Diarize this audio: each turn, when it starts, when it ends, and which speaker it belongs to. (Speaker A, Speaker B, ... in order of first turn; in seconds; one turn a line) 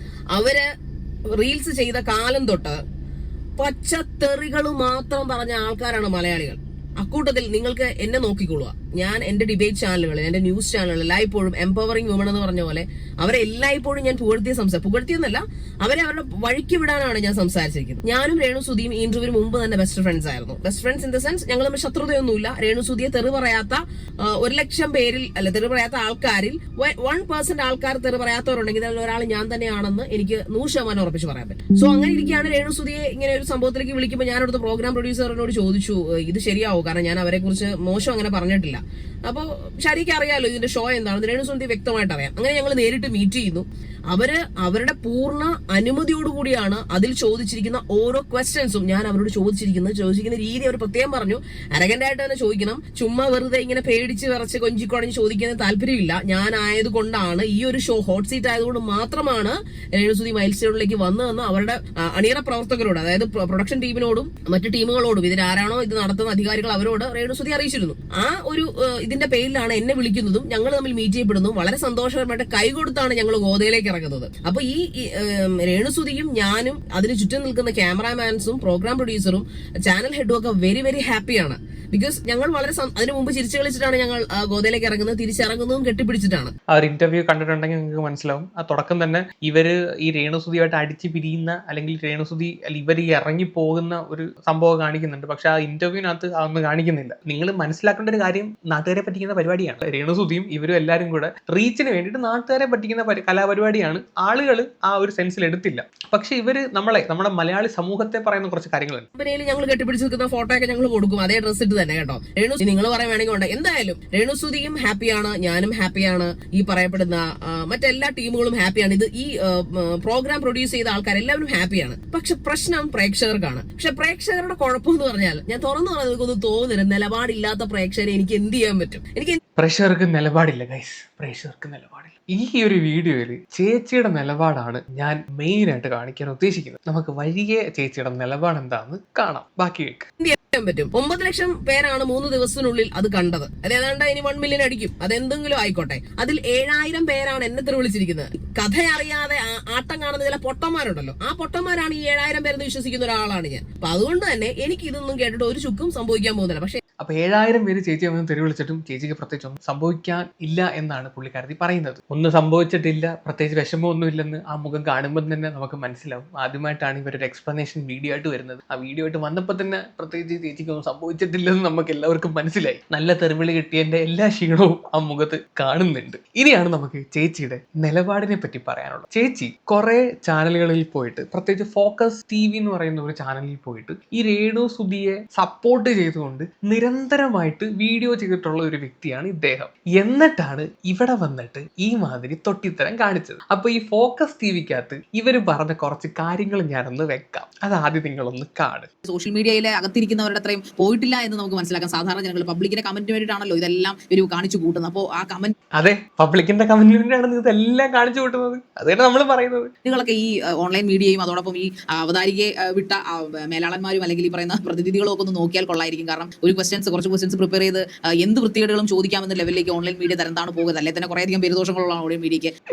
Speaker A: 0.3-0.6
Speaker A: 1.4-2.8
Speaker A: 3.6-86.5
Speaker B: 86.7-109.1
Speaker A: 109.2-129.4
Speaker B: 129.6-140.1
Speaker A: 140.2-156.8
Speaker B: 157.0-198.9
Speaker C: 199.1-205.5
Speaker B: 205.8-209.7
Speaker C: 209.8-222.5